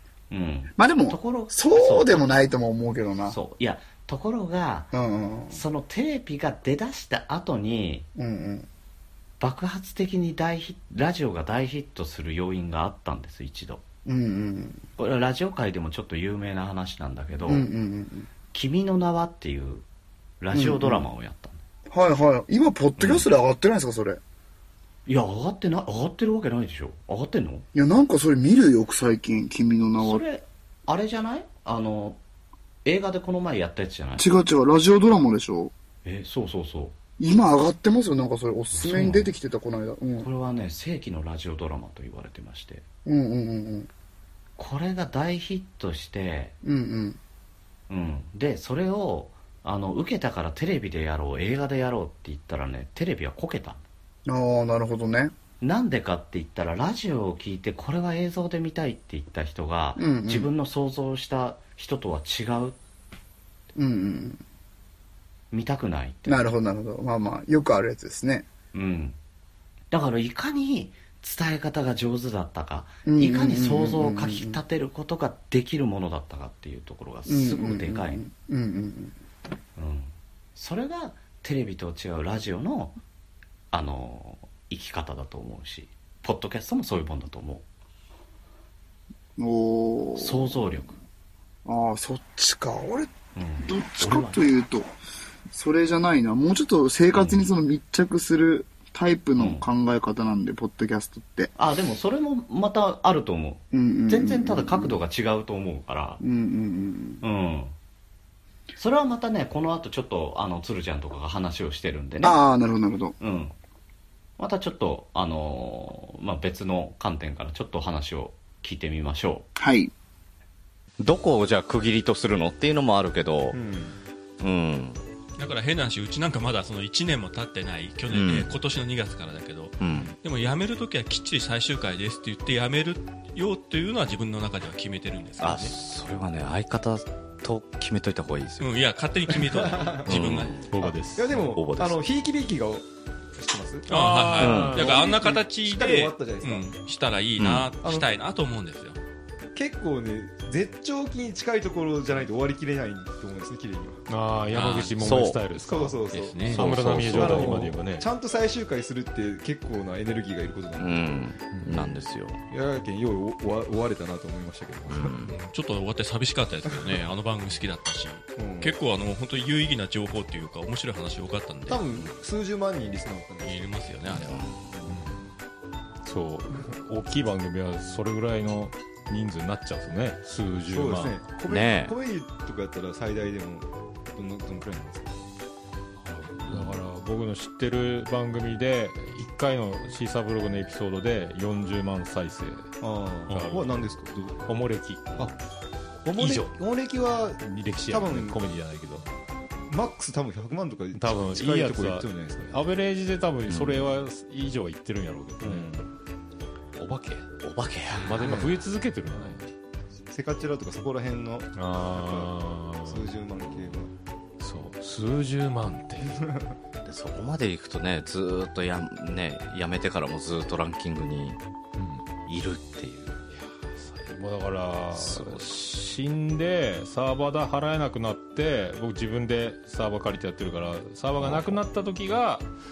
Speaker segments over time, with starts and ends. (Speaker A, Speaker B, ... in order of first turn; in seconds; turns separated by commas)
Speaker A: 0.3-2.3, Speaker B: 0.8-3.4, Speaker A: 3.3-4.9, Speaker B: 4.9-5.6, Speaker A: 5.5-8.1, Speaker B: 8.2-8.7, Speaker A: 9.4-13.8, Speaker B: 14.1-14.8, Speaker A: 15.0-17.7, Speaker B: 17.5-18.3, Speaker A: 18.5-19.9, Speaker A: 20.4-21.6, Speaker B: 20.5-21.1, Speaker B: 21.9-24.2, Speaker A: 23.0-23.3, Speaker A: 25.1-27.7, Speaker B: 27.7-30.2, Speaker A: 30.0-32.2, Speaker A: 32.9-34.3, Speaker B: 34.2-35.7, Speaker A: 36.0-37.0, Speaker B: 37.2-40.3, Speaker A: 38.7-39.3, Speaker A: 40.2-42.9, Speaker B: 43.0-43.9, Speaker A: 44.6-46.6, Speaker B: 46.6-47.2, Speaker A: 47.9-53.8, Speaker B: 54.3-55.3, Speaker A: 55.6-62.8, Speaker B: 60.0-60.5, Speaker B: 63.8-64.4, Speaker A: 65.5-66.5, Speaker B: 66.3-68.5, Speaker A: 68.7-69.2, Speaker A: 69.9-78.2, Speaker B: 73.1-74.6, Speaker B: 77.3-79.1, Speaker A: 79.8-83.0, Speaker A: 83.7-87.7, Speaker B: 89.4-90.6, Speaker A: 90.2-91.0, Speaker B: 91.7-94.9, Speaker A: 93.3-94.5, Speaker B: 95.5-101.5, Speaker A: 97.1-97.5, Speaker A: 99.4-99.7, Speaker A: 101.6-106.2, Speaker B: 103.7-105.0, Speaker B: 106.2-107.2, Speaker A: 107.2-107.8, Speaker A: 108.8-112.4, Speaker B: 112.2-113.2, Speaker A: 113.2-113.5, Speaker A: 114.4-119.5, Speaker B: 119.6-119.9, Speaker C: 121.0-123.6, Speaker D: 123.5-124.0, Speaker C: 124.4-125.0, Speaker E: 125.4-135.8, Speaker C: 128.1-128.5, Speaker C: 129.8-130.2, Speaker C: 135.4-138.7, Speaker E: 138.6-140.9, Speaker D: 139.5-140.4, Speaker C: 140.1-142.0, Speaker F: 140.7-141.3, Speaker D: 141.2-144.1, Speaker F: 143.9-145.3, Speaker E: 143.9-149.0, Speaker C: 144.4-144.9, Speaker D: 144.7-146.7, Speaker C: 147.4-147.7, Speaker D: 147.8-148.1, Speaker D: 149.6-154.1, Speaker F: 154.1-158.1, Speaker E: 154.5-154.9, Speaker C: 154.9-155.4, Speaker D: 155.5-161.0, Speaker E: 156.1-157.3, Speaker C: 156.6-157.7, Speaker C: 160.8-162.4, Speaker F: 161.5-161.9, Speaker D: 162.5-165.2, Speaker C: 164.9-165.3, Speaker E: 165.3-172.0, Speaker D: 168.4-168.8, Speaker D: 171.7-175.0, Speaker E: 173.4-174.4, Speaker C: 174.2-174.8, Speaker F: 174.9-175.2, Speaker F: 176.0-181.3, Speaker D: 180.7-185.2, Speaker C: 181.5-181.9, Speaker F: 186.0-192.7, Speaker D: 186.5-186.8, Speaker D: 192.8-194.5, Speaker F: 193.3-195.3, Speaker D: 196.1-198.4, Speaker F: 196.2-196.6, Speaker F: 197.4-199.1, Speaker D: 199.7-202.6, Speaker F: 200.9-205.9, Speaker C: 203.5-203.9, Speaker D: 205.4-205.8, Speaker F: 206.8-207.3, Speaker C: 207.4-208.6, Speaker F: 207.9-209.5, Speaker D: 208.2-208.6, Speaker D: 210.1-213.9, Speaker F: 211.6-213.1, Speaker F: 214.4-216.3, Speaker C: 216.8-221.4, Speaker F: 221.8-222.0, Speaker C: 222.3-223.2, Speaker F: 223.4-232.5, Speaker C: 224.9-225.5, Speaker C: 231.2-231.6